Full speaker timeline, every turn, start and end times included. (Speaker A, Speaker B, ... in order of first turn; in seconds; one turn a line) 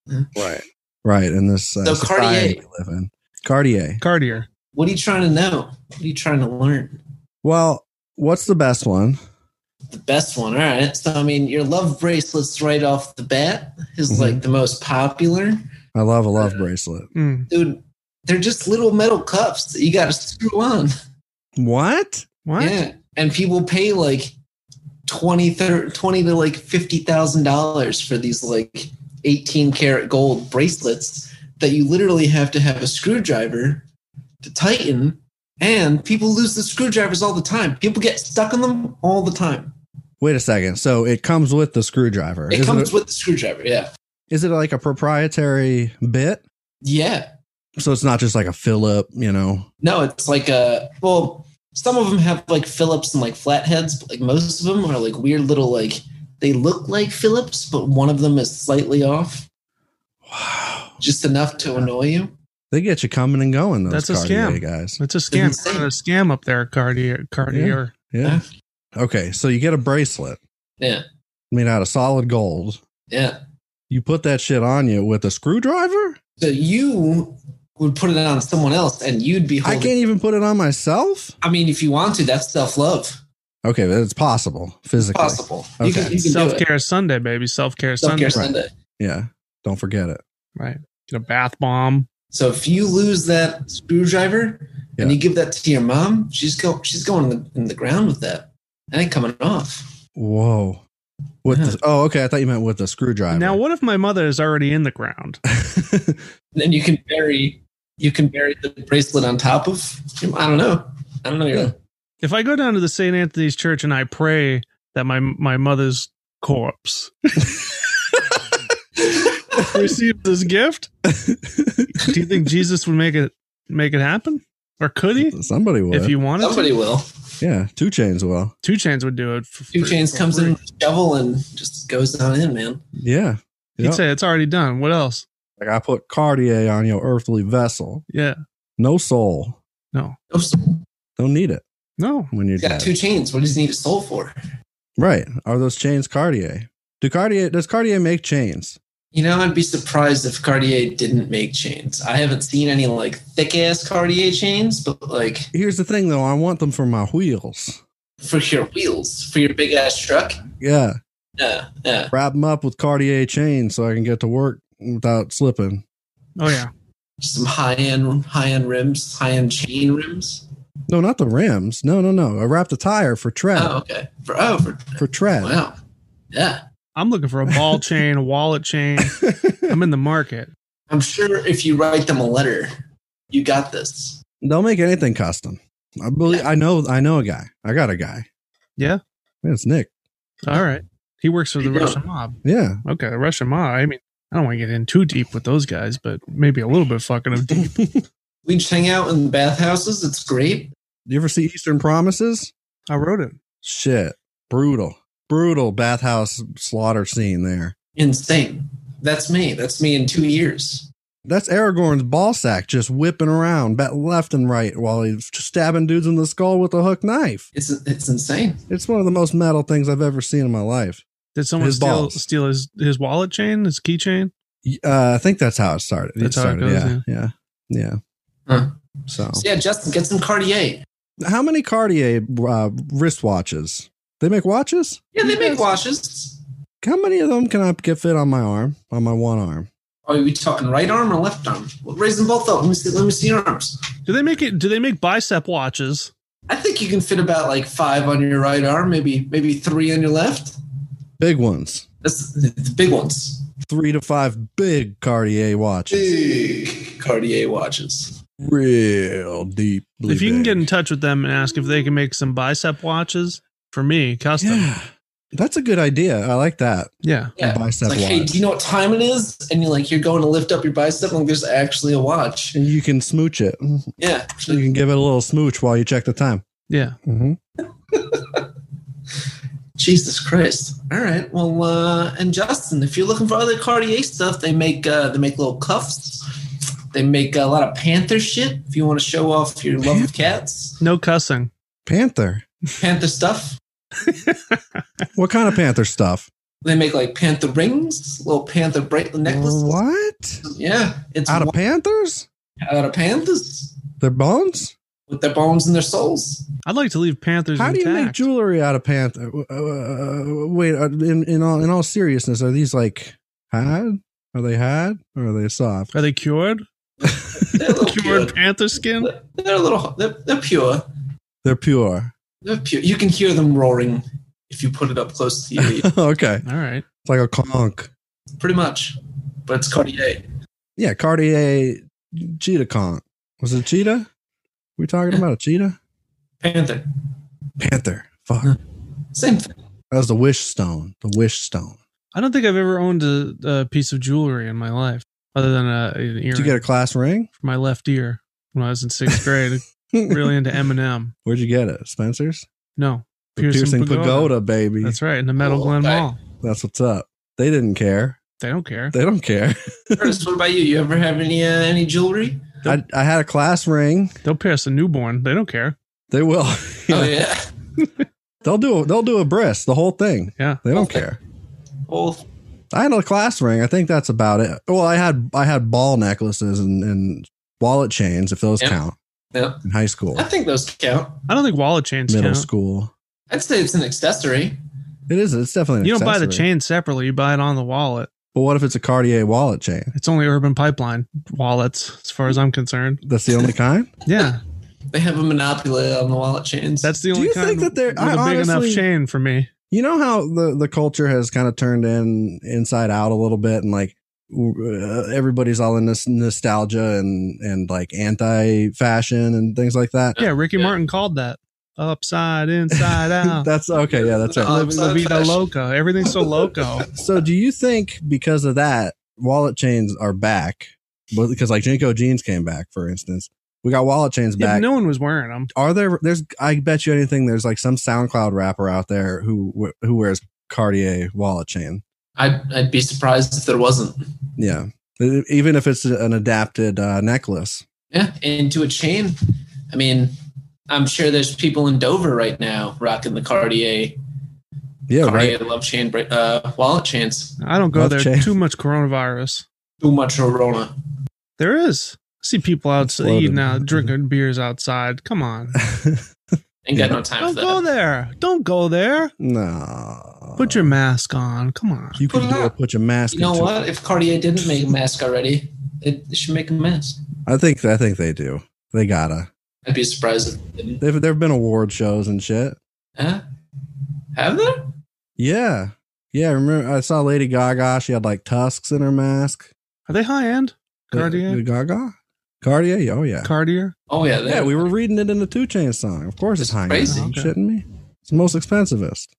Speaker A: 0.3-4.0
Speaker B: 1.8-2.6
Speaker C: 4.0-4.5
Speaker B: 4.7-7.0
Speaker A: 7.4-9.2
Speaker B: 9.9-15.6
Speaker A: 14.1-14.4
Speaker A: 15.9-17.1
Speaker B: 16.4-16.6
Speaker C: 17.1-17.5
Speaker B: 17.5-20.9
Speaker A: 21.6-22.3
Speaker C: 22.4-22.8
Speaker B: 22.6-24.3
Speaker B: 25.1-33.9
Speaker B: 34.4-39.7
Speaker A: 40.2-42.9
Speaker B: 42.5-43.9
Speaker A: 44.3-46.4
Speaker B: 46.8-47.3
Speaker A: 47.8-49.7
Speaker B: 49.8-59.5
Speaker A: 60.2-61.0
Speaker B: 61.0-62.3
Speaker A: 62.7-65.0
Speaker C: 63.9-67.9
Speaker B: 65.3-65.9
Speaker A: 67.5-68.4
Speaker A: 69.0-70.4
Speaker A: 71.5-72.8
Speaker B: 73.1-73.3
Speaker A: 73.9-76.2
Speaker B: 76.4-79.9
Speaker A: 79.6-81.3
Speaker B: 81.4-83.2
Speaker A: 83.6-86.2
Speaker B: 85.0-86.6
Speaker C: 86.2-88.4
Speaker B: 88.0-88.7
Speaker A: 88.3-90.2
Speaker C: 90.5-92.1
Speaker B: 92.3-99.9
Speaker A: 100.2-100.8
Speaker A: 101.4-103.6
Speaker B: 101.5-101.8
Speaker C: 103.3-105.4
Speaker A: 105.5-106.2
Speaker B: 106.5-111.8
Speaker C: 112.2-117.5
Speaker B: 119.0-119.7
Speaker C: 119.5-120.9
Speaker A: 121.0-122.2
Speaker C: 121.9-125.3
Speaker A: 125.2-126.2
Speaker C: 125.9-126.7
Speaker B: 126.4-127.1
Speaker A: 127.4-128.5
Speaker C: 128.6-130.6
Speaker B: 129.7-132.8
Speaker A: 132.9-134.0
Speaker C: 133.8-135.2
Speaker A: 135.6-138.0
Speaker C: 138.1-138.4
Speaker A: 138.8-139.6
Speaker B: 140.3-140.8
Speaker A: 141.2-141.6
Speaker C: 142.0-142.3
Speaker A: 142.3-142.9
Speaker B: 142.6-144.3
Speaker A: 145.0-148.8
Speaker B: 149.1-155.5
Speaker A: 155.5-157.8
Speaker B: 158.2-160.4
Speaker A: 160.6-161.0
Speaker B: 161.4-162.1
Speaker A: 162.1-165.8
Speaker C: 166.4-166.7
Speaker B: 167.2-170.4
Speaker A: 170.9-173.8
Speaker B: 173.5-175.7
Speaker A: 175.0-175.6
Speaker B: 176.3-176.6
Speaker C: 176.9-180.5
Speaker A: 177.5-177.8
Speaker A: 179.0-179.8
Speaker B: 180.9-182.7
Speaker B: 183.3-184.2
Speaker A: 184.4-188.2
Speaker A: 189.4-189.9
Speaker C: 190.4-197.8
Speaker B: 191.6-192.0
Speaker A: 192.4-192.8
Speaker A: 197.5-198.0
Speaker B: 198.4-200.7
Speaker A: 201.1-202.5
Speaker C: 202.9-203.4
Speaker A: 203.6-207.7
Speaker B: 207.9-210.9
Speaker A: 211.2-217.4
Speaker B: 217.5-218.6
Speaker A: 218.7-221.0
Speaker C: 221.3-224.3
Speaker A: 221.6-222.2
Speaker A: 224.6-228.0
Speaker C: 226.2-227.0
Speaker B: 228.5-228.7
Speaker A: 229.1-229.4
Speaker B: 229.3-230.8
Speaker A: 231.2-235.1
Speaker B: 235.1-236.4
Speaker C: 235.2-235.6
Speaker A: 236.8-239.7
Speaker B: 240.1-243.8
Speaker C: 244.1-246.1
Speaker B: 246.5-250.6
Speaker A: 251.2-251.8
Speaker B: 252.0-253.5
Speaker A: 253.7-256.1
Speaker B: 255.9-258.2
Speaker A: 258.4-260.7
Speaker C: 260.1-264.7
Speaker A: 264.4-268.3
Speaker C: 267.0-267.3
Speaker B: 267.4-272.6
Speaker A: 272.5-273.9
Speaker B: 274.0-274.6
Speaker A: 274.5-276.4
Speaker C: 276.7-277.0
Speaker A: 277.1-277.4
Speaker B: 277.9-278.5
Speaker B: 279.8-286.2
Speaker B: 286.9-290.8
Speaker A: 289.8-290.1
Speaker C: 290.8-291.5
Speaker A: 291.9-292.4
Speaker B: 292.8-293.6
Speaker C: 294.0-294.8
Speaker A: 295.1-296.3
Speaker B: 296.6-299.8
Speaker A: 299.2-300.4
Speaker B: 300.4-301.5
Speaker A: 301.3-302.3
Speaker B: 302.6-303.8
Speaker A: 304.0-304.7
Speaker B: 305.1-306.5
Speaker C: 306.6-308.3
Speaker A: 307.6-315.9
Speaker C: 315.9-316.6
Speaker A: 317.0-317.6
Speaker B: 317.1-318.3
Speaker C: 317.7-319.1
Speaker B: 319.0-320.9
Speaker A: 321.4-322.1
Speaker B: 322.4-325.9
Speaker A: 325.6-326.4
Speaker C: 326.4-326.8
Speaker A: 327.0-327.9
Speaker B: 328.4-330.2
Speaker A: 330.8-334.1
Speaker A: 334.8-335.8
Speaker B: 336.4-336.9
Speaker A: 337.6-338.6
Speaker B: 339.1-339.5
Speaker A: 339.9-341.8
Speaker C: 342.1-346.6
Speaker A: 346.3-347.3
Speaker C: 347.4-351.1
Speaker A: 349.9-350.3
Speaker A: 351.2-352.4
Speaker C: 352.8-356.2
Speaker A: 353.4-355.0
Speaker B: 355.4-356.1
Speaker A: 356.4-358.2
Speaker C: 358.4-358.9
Speaker A: 358.9-360.2
Speaker B: 360.0-362.6
Speaker A: 362.6-364.1
Speaker C: 364.2-365.8
Speaker A: 366.1-367.3
Speaker B: 366.9-367.4
Speaker A: 368.4-371.2
Speaker C: 370.4-370.6
Speaker B: 370.7-371.1
Speaker B: 371.9-372.2
Speaker A: 372.7-378.9
Speaker B: 379.3-379.6
Speaker A: 379.6-380.2
Speaker B: 380.1-381.3
Speaker C: 381.3-382.5
Speaker A: 382.1-382.9
Speaker B: 383.3-384.6
Speaker A: 385.1-386.4
Speaker C: 385.8-388.1
Speaker A: 388.3-389.9
Speaker C: 389.9-393.0
Speaker A: 393.0-393.9
Speaker C: 394.1-394.4
Speaker B: 394.9-396.9
Speaker C: 396.8-399.5
Speaker A: 397.1-398.9
Speaker A: 399.7-410.2
Speaker B: 410.1-410.7
Speaker C: 410.2-413.5
Speaker A: 412.7-414.9
Speaker B: 413.8-415.4
Speaker C: 414.5-416.9
Speaker A: 417.0-424.7
Speaker C: 424.4-425.5
Speaker A: 425.5-431.8
Speaker B: 432.2-434.0
Speaker A: 434.4-437.6
Speaker B: 437.9-439.1
Speaker B: 439.7-440.1
Speaker B: 440.7-444.0
Speaker A: 444.9-445.4
Speaker B: 445.0-447.4
Speaker C: 447.4-449.4
Speaker A: 447.7-448.3
Speaker B: 449.8-450.7
Speaker C: 451.4-455.6
Speaker A: 452.8-453.9
Speaker A: 455.6-456.0
Speaker B: 456.6-457.6
Speaker C: 457.2-459.1
Speaker A: 459.2-460.7
Speaker C: 460.4-462.0
Speaker A: 461.9-463.6
Speaker B: 462.1-462.5
Speaker B: 463.1-467.0
Speaker A: 467.2-469.3
Speaker B: 469.6-470.8
Speaker A: 470.8-472.6
Speaker B: 473.0-473.2
Speaker B: 474.1-474.7
Speaker A: 475.2-479.5
Speaker C: 479.9-481.4
Speaker A: 480.9-483.3
Speaker C: 483.2-483.7
Speaker B: 483.9-484.7
Speaker A: 484.2-489.1
Speaker B: 486.4-487.0
Speaker C: 486.9-487.3